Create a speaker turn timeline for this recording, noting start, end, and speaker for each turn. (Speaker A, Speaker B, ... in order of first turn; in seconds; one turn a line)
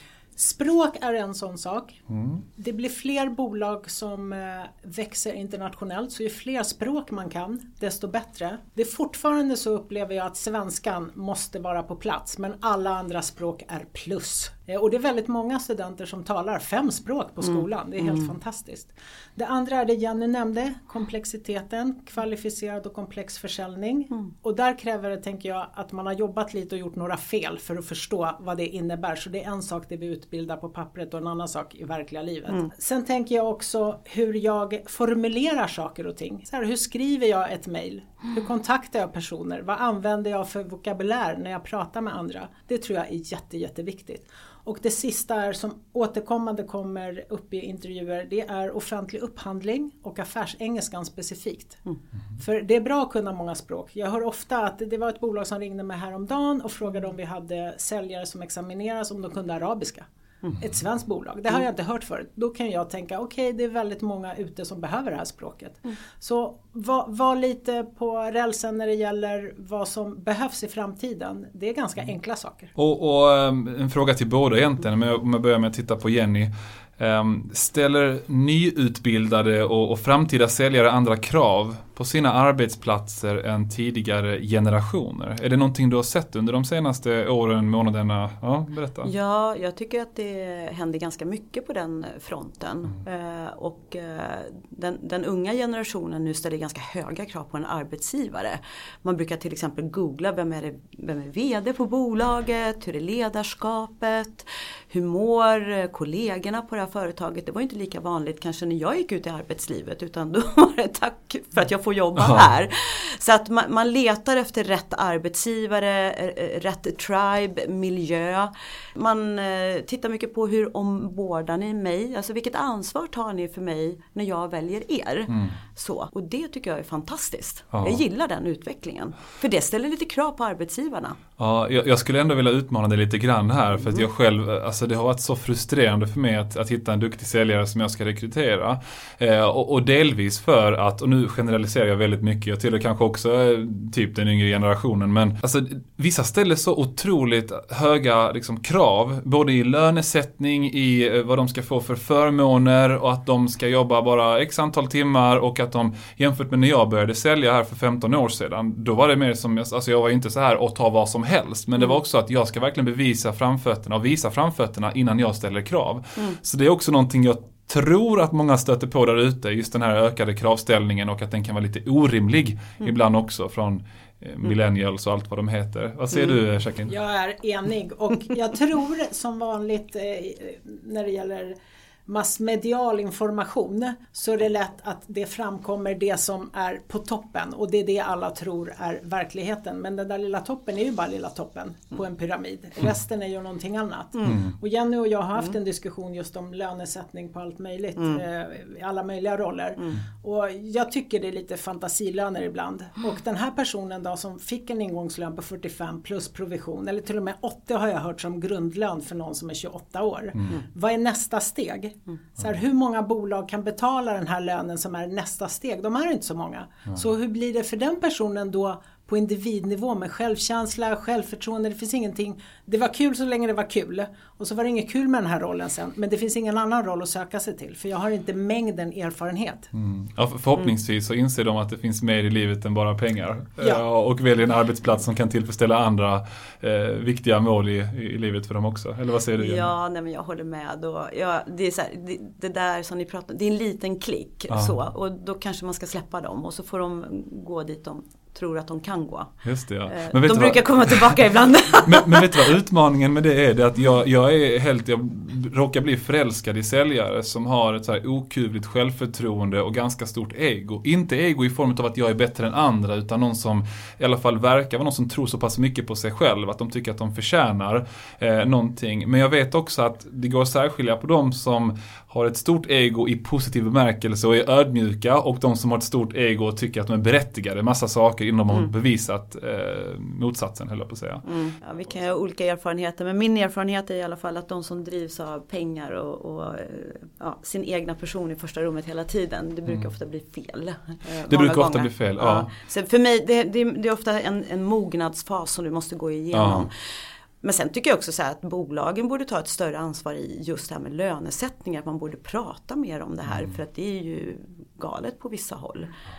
Speaker A: 0.3-2.0
Speaker B: 2.1-2.4
Speaker A: 2.5-51.8
Speaker C: 18.0-18.3
Speaker A: 52.4-60.1
Speaker A: 60.6-72.7
Speaker B: 72.8-89.1
Speaker C: 89.0-131.2
Speaker B: 125.3-125.5
Speaker B: 127.7-128.0
Speaker B: 131.4-176.9
Speaker A: 176.9-181.5
Speaker A: 182.1-229.7
Speaker B: 194.2-194.5
Speaker C: 198.0-198.2
Speaker B: 229.7-239.7
Speaker C: 239.4-249.3
Speaker B: 244.5-244.7
Speaker B: 249.4-251.2
Speaker C: 249.9-252.5
Speaker B: 251.8-281.2
Speaker C: 281.2-305.9
Speaker B: 291.3-292.5
Speaker B: 296.3-296.7
Speaker B: 303.3-303.5